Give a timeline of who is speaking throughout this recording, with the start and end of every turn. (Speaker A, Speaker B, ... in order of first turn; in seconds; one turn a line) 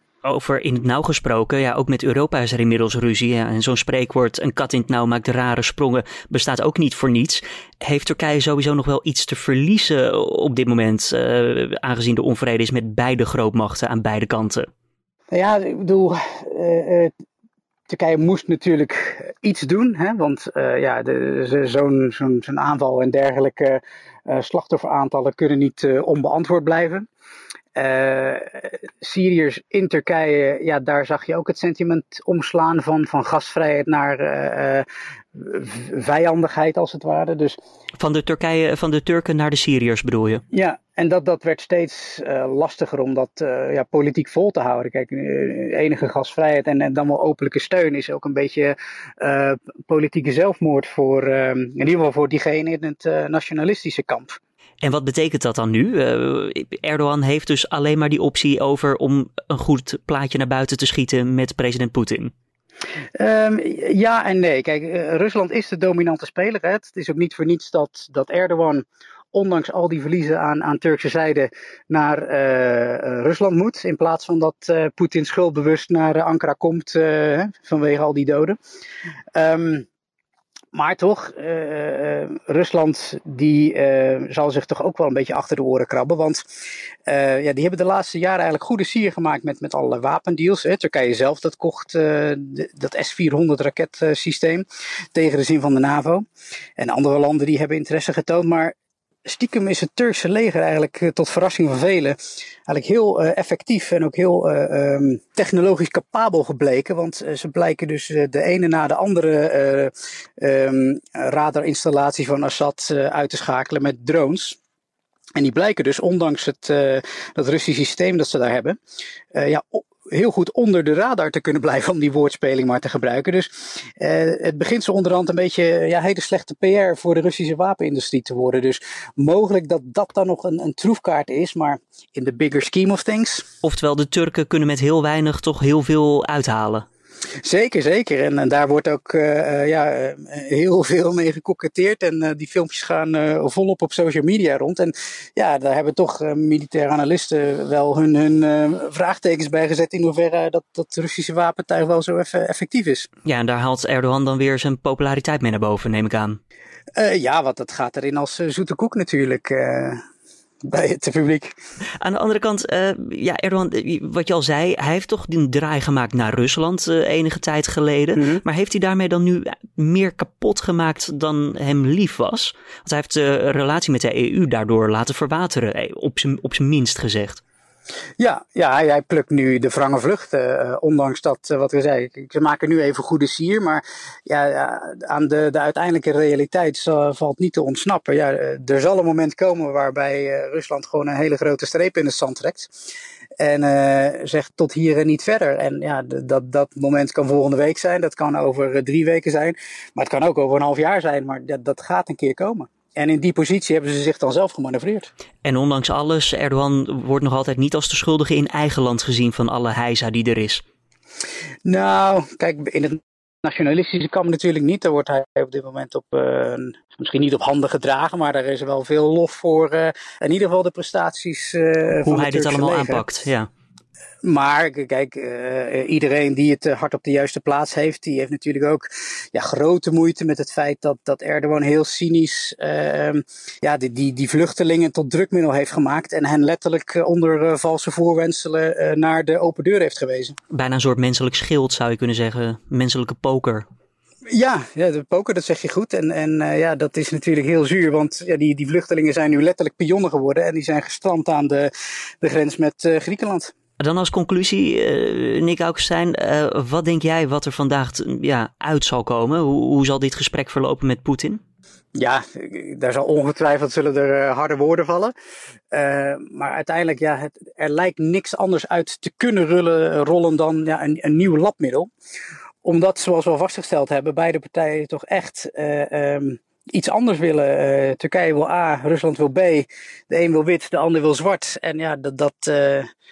Speaker A: 0.2-14.7
Speaker B: 15.3-17.1
Speaker B: 17.9-27.1
Speaker B: 27.8-37.6
Speaker A: 38.0-40.4
Speaker B: 40.5-54.4
Speaker A: 54.8-62.3
Speaker B: 63.2-78.6
Speaker B: 79.3-79.9
Speaker B: 80.7-96.2
Speaker B: 96.8-98.7
Speaker B: 99.2-114.6
Speaker B: 115.3-118.8
Speaker B: 119.3-133.5
Speaker A: 133.6-136.8
Speaker B: 137.4-153.1
Speaker A: 153.2-156.4
Speaker B: 156.9-160.0
Speaker B: 160.7-161.6
Speaker A: 162.0-177.4
Speaker B: 178.2-192.7
Speaker B: 193.4-205.1
Speaker A: 205.4-210.6
Speaker B: 211.7-223.0
Speaker A: 222.0-223.5
Speaker B: 224.2-240.4
Speaker A: 240.5-243.7
Speaker B: 244.3-253.5
Speaker A: 253.8-261.4
Speaker B: 261.9-265.1
Speaker B: 265.7-271.9
Speaker B: 272.6-282.9